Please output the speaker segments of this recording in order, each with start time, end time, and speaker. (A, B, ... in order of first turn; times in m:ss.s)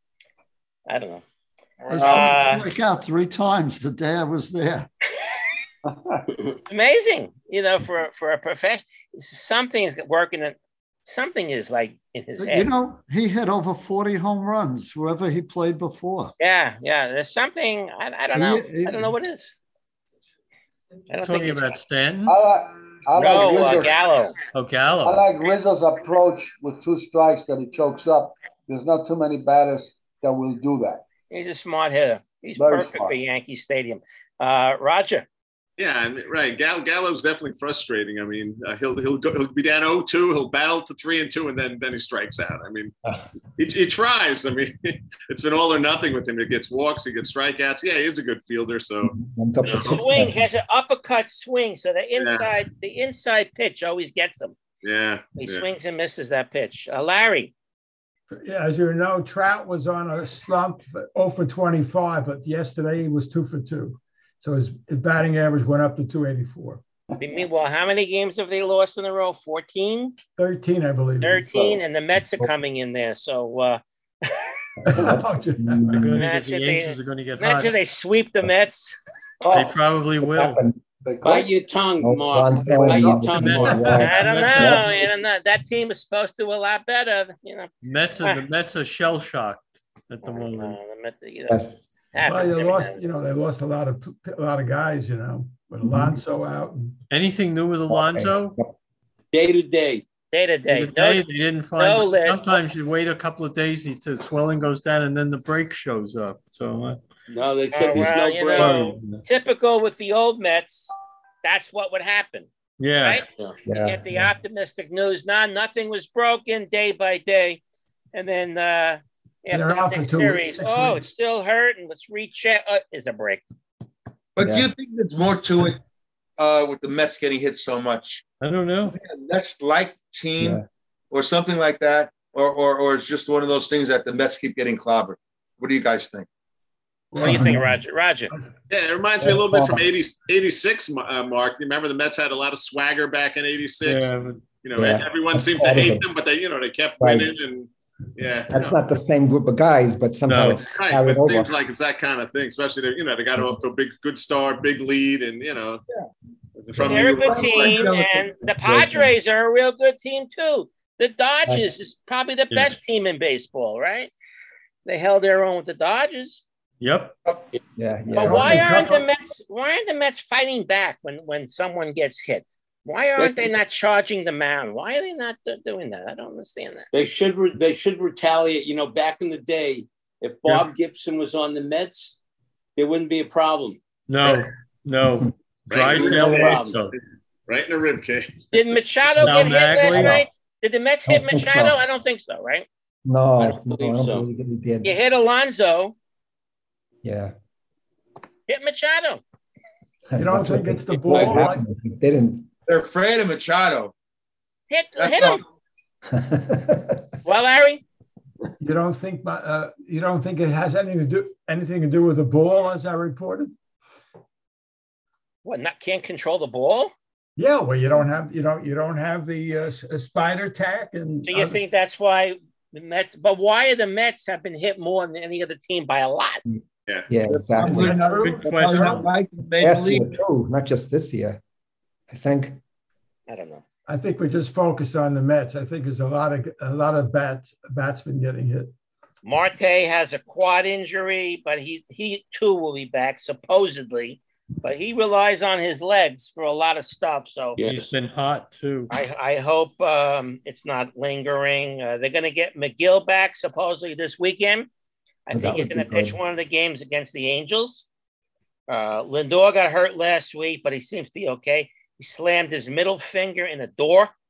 0:00.9-0:01.2 A
0:01.8-0:02.4 B
0:01.9-0:04.9 C
0:02.0-0:02.6 A
0:05.8-0:06.2 D
0:06.6-0:12.7 A
0:12.4-0:16.3 C
0:16.4-0:19.6 A
0:18.3-0:19.1 C
0:21.1-0:21.8 A
0:21.2-0:22.3 E
0:22.2-0:24.0 D
0:23.2-0:24.3 A
0:24.5-0:25.2 E
0:25.0-0:31.0 D
0:31.3-0:35.3 A
0:32.6-0:33.2 D
0:35.8-0:42.9 F
0:43.6-0:50.1 F
0:49.1-0:50.5 G
0:49.8-0:54.6 A
0:52.2-0:52.5 F
0:54.8-0:55.7 F
0:55.4-0:57.5 A
0:58.3-1:06.8 H
1:07.2-1:10.2 A
1:10.4-1:11.5 H
1:11.2-1:13.8 A
1:14.8-1:15.9 H
1:14.9-1:16.2 G
1:15.9-1:17.8 E
1:16.2-1:19.0 A
1:19.4-1:19.7 D
1:19.5-1:20.6 E
1:20.2-1:20.8 G
1:21.0-1:21.5 D
1:21.2-1:23.8 I
1:22.0-1:24.9 G
1:23.3-1:24.9 E
1:23.7-1:24.0 H
1:23.9-1:27.7 A
1:27.8-1:30.8 E
1:30.2-1:33.0 A
1:31.5-1:31.9 G
1:32.2-1:36.9 H
1:35.8-1:36.2 G
1:37.1-1:38.6 E
1:37.9-1:38.7 G
1:39.3-1:40.0 I
1:40.3-1:41.2 A
1:40.7-1:47.0 E
1:41.8-1:42.6 A
1:47.3-1:48.9 I
1:47.7-1:50.9 A
1:48.0-1:49.2 E
1:51.4-1:52.5 A
1:52.8-1:53.2 E
1:53.0-1:57.6 A
1:53.6-1:54.3 G
1:58.1-2:03.4 A
1:59.5-2:01.0 H
2:04.4-2:05.8 B
2:04.4-2:04.7 G
2:06.4-2:08.2 B
2:08.4-2:09.0 E
2:08.9-2:16.3 B
2:10.4-2:10.6 G
2:17.1-2:17.7 H
2:17.2-2:18.3 A
2:17.2-2:17.6 G
2:18.7-2:28.8 F
2:19.2-2:19.8 G
2:23.8-2:24.5 E
2:24.7-2:26.0 G
2:27.0-2:27.3 G
2:28.5-2:31.5 G
2:30.3-2:30.6 E
2:30.6-2:35.8 F
2:36.6-2:37.9 F
2:36.8-2:44.1 A
2:36.9-2:38.2 B
2:38.6-2:39.1 G
2:42.5-2:42.8 E
2:44.8-2:46.4 A
2:46.8-2:47.1 E
2:47.8-2:48.9 G
2:48.1-2:56.9 A
2:48.2-2:49.0 H
2:53.2-2:53.5 I
2:56.9-3:02.2 I
3:02.8-3:03.8 I
3:04.1-3:06.9 E
3:05.7-3:06.9 F
3:05.9-3:06.8 I
3:07.5-3:08.4 F
3:08.5-3:12.7 A
3:09.2-3:10.3 E
3:11.1-3:11.8 G
3:13.0-3:15.0 G
3:13.4-3:14.3 I
3:14.8-3:15.9 A
3:17.0-3:17.3 G
3:18.5-3:19.2 A
3:20.1-3:22.5 G
3:20.2-3:21.6 H
3:22.7-3:23.9 B
3:24.7-3:25.4 A
3:25.0-3:25.4 B
3:26.1-3:27.1 G
3:27.2-3:27.8 A
3:28.6-3:33.5 H
3:35.4-3:36.9 A
3:37.4-3:41.6 H
3:41.3-3:46.4 A
3:46.4-3:48.2 G
3:47.3-3:50.2 B
3:47.6-3:48.5 H
3:48.1-3:49.0 E
3:49.6-3:51.4 G
3:52.1-3:52.6 G
3:53.3-3:53.6 A
3:53.9-3:58.7 H
3:59.2-4:07.6 A
4:07.6-4:07.9 I
4:07.6-4:08.9 E
4:08.9-4:14.7 A
4:15.3-4:17.8 A
4:15.3-4:16.2 G
4:18.7-4:24.1 A